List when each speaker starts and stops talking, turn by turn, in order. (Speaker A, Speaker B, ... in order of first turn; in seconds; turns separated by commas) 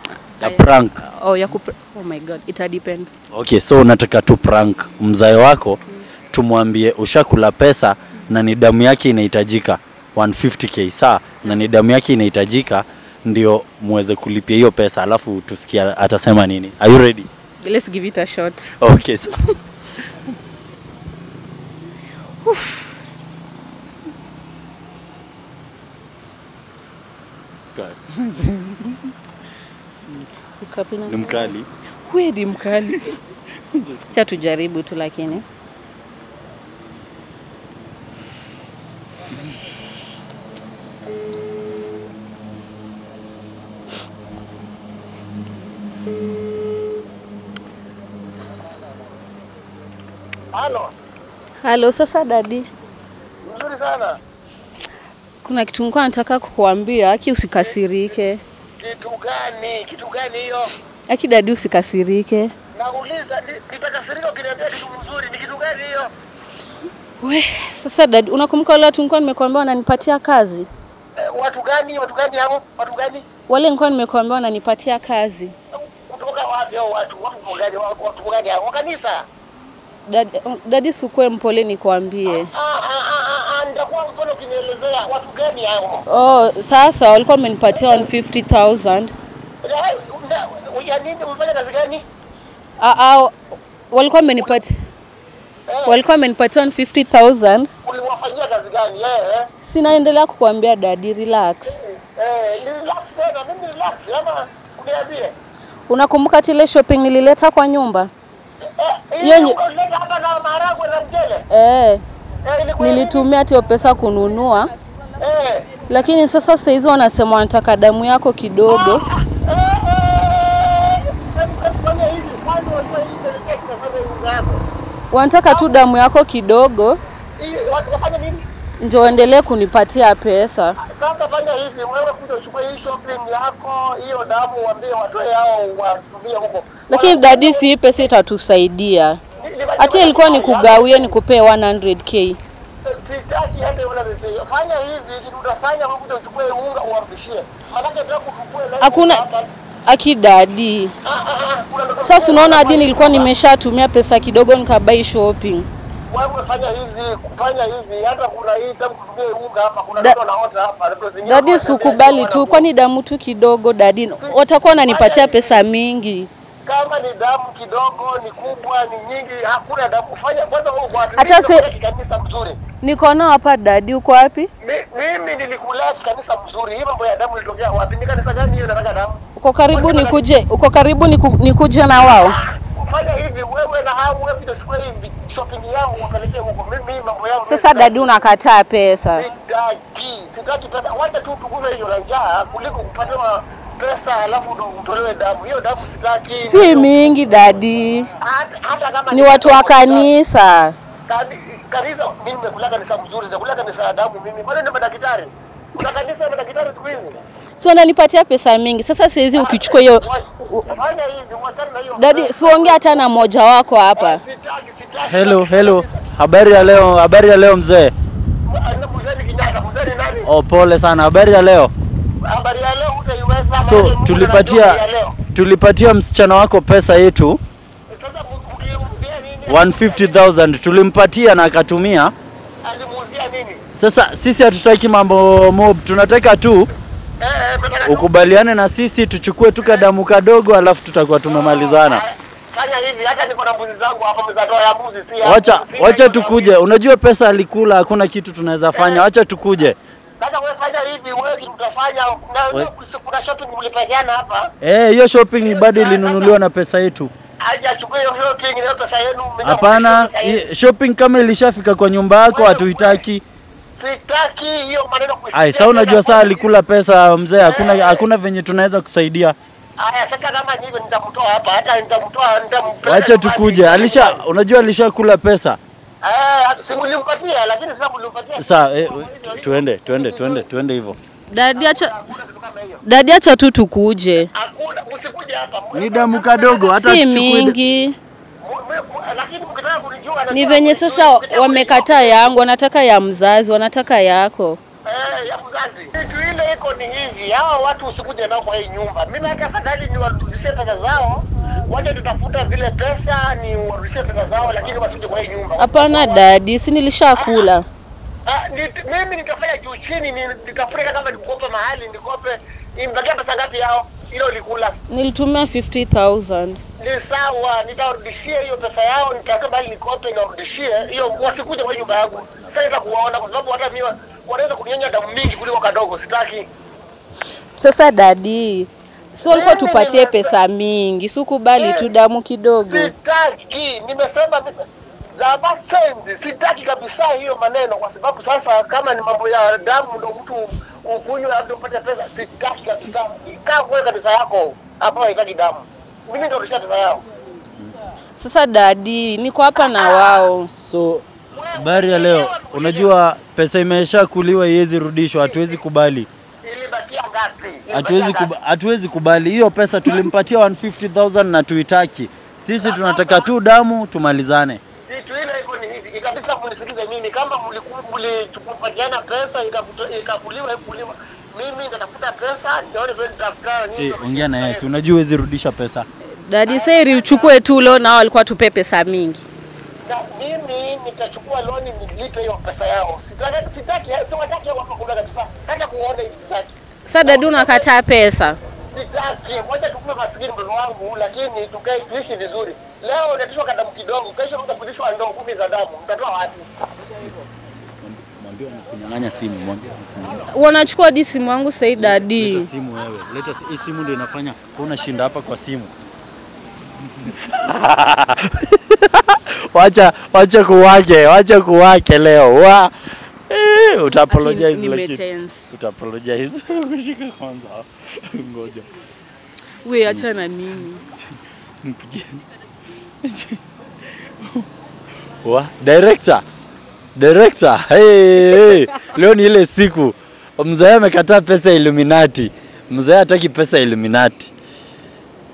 Speaker A: 0.4-3.1, Speaker B: 0.4-1.0, Speaker B: 3.3-5.8, Speaker B: 6.3-17.3, Speaker A: 17.6-18.7, Speaker B: 18.8-19.6, Speaker A: 22.4-22.9, Speaker B: 27.7-29.1, Speaker A: 30.6-31.5, Speaker B: 31.1-31.7, Speaker A: 32.0-33.2, Speaker B: 33.7-34.1, Speaker A: 34.1-35.4, Speaker C: 50.5-50.9, Speaker A: 51.6-52.7, Speaker C: 53.4-54.2, Speaker A: 55.4-58.4, Speaker C: 58.8-60.7, Speaker A: 61.1-62.5, Speaker C: 62.7-66.1, Speaker A: 67.2-70.7, Speaker C: 71.2-73.2, Speaker A: 73.5-75.5, Speaker C: 75.8-79.2, Speaker A: 80.1-82.5, Speaker C: 82.2-86.0, Speaker A: 86.1-89.1, Speaker C: 87.7-88.1, Speaker C: 89.6-92.0, Speaker A: 92.8-93.3, Speaker A: 93.9-94.7, Speaker C: 95.7-96.0, Speaker A: 95.8-97.7, Speaker C: 97.8-99.5, Speaker A: 99.6-101.8, Speaker C: 101.7-105.3, Speaker A: 105.9-108.1, Speaker C: 108.6-111.4, Speaker A: 109.2-109.6, Speaker A: 111.5-112.0, Speaker C: 112.4-113.3, Speaker A: 112.8-114.7, Speaker C: 115.2-115.7, Speaker A: 115.9-119.0, Speaker C: 118.7-124.6, Speaker A: 125.1-127.0, Speaker C: 125.5-125.8, Speaker C: 127.4-128.4, Speaker A: 128.8-130.8, Speaker C: 130.8-138.1, Speaker A: 136.9-139.2, Speaker C: 139.4-141.1, Speaker A: 139.8-142.4, Speaker C: 142.8-149.5, Speaker A: 148.8-149.2, Speaker A: 149.8-150.9, Speaker C: 151.0-153.3, Speaker A: 152.0-155.7, Speaker C: 156.1-162.7, Speaker A: 161.2-166.3, Speaker C: 164.2-165.6, Speaker C: 166.7-172.6, Speaker A: 171.2-171.7, Speaker A: 172.8-174.5, Speaker C: 174.6-179.2, Speaker A: 179.4-182.3, Speaker C: 179.7-180.2, Speaker C: 182.0-188.2, Speaker A: 187.4-189.3, Speaker C: 189.2-196.9, Speaker A: 196.4-198.1, Speaker C: 198.2-200.1, Speaker A: 199.1-200.8, Speaker C: 201.1-207.2, Speaker A: 207.6-210.8, Speaker C: 209.3-213.1, Speaker A: 211.9-214.2, Speaker C: 213.9-216.1, Speaker B: 215.0-217.9, Speaker C: 218.5-220.3, Speaker B: 220.2-221.7, Speaker C: 222.2-225.2, Speaker B: 223.6-224.8, Speaker B: 225.3-227.4, Speaker C: 227.9-230.2, Speaker B: 229.5-232.1, Speaker C: 232.6-233.6, Speaker B: 233.7-236.7, Speaker C: 237.2-238.1, Speaker B: 237.8-242.0, Speaker C: 239.6-239.9, Speaker C: 241.2-246.5, Speaker B: 245.2-249.8, Speaker C: 248.7-249.0, Speaker C: 250.2-254.5, Speaker B: 254.6-257.1, Speaker C: 255.4-256.4, Speaker C: 257.4-260.4, Speaker B: 259.4-263.2, Speaker C: 262.3-263.0, Speaker C: 263.8-266.4, Speaker B: 265.3-269.4, Speaker C: 267.4-268.0, Speaker C: 269.8-274.2, Speaker B: 272.8-275.6, Speaker C: 276.0-280.5, Speaker B: 278.4-281.0, Speaker A: 281.3-281.9, Speaker C: 281.5-282.8, Speaker A: 282.8-284.3, Speaker C: 284.3-286.8, Speaker B: 285.7-287.6, Speaker A: 286.8-288.0, Speaker C: 288.4-292.3, Speaker A: 290.3-294.6, Speaker C: 294.9-306.2, Speaker A: 305.6-307.6, Speaker C: 307.2-307.5, Speaker C: 308.2-314.7, Speaker A: 314.9-316.6, Speaker C: 316.8-326.5, Speaker B: 321.4-322.6, Speaker A: 327.6-332.9, Speaker C: 329.2-330.3, Speaker C: 331.6-331.9, Speaker C: 332.6-334.5, Speaker C: 335.1-347.0, Speaker A: 348.2-350.5, Speaker C: 349.6-350.3, Speaker B: 350.6-356.1, Speaker C: 351.3-352.9, Speaker C: 355.2-355.6, Speaker C: 356.4-358.3, Speaker B: 357.7-364.6, Speaker C: 362.6-363.3, Speaker C: 364.9-374.7, Speaker B: 373.8-375.9, Speaker A: 376.1-379.2, Speaker C: 376.4-377.4, Speaker C: 379.8-387.7, Speaker A: 386.9-388.4, Speaker C: 388.7-396.4, Speaker B: 397.8-400.2, Speaker A: 400.3-402.5, Speaker B: 401.8-405.7, Speaker B: 406.9-412.7, Speaker B: 413.3-415.0, Speaker A: 414.1-415.5, Speaker B: 415.5-418.7, Speaker A: 419.6-420.9, Speaker B: 420.8-422.2, Speaker B: 423.0-423.4, Speaker B: 424.0-424.4, Speaker B: 425.2-426.2, Speaker B: 426.9-434.3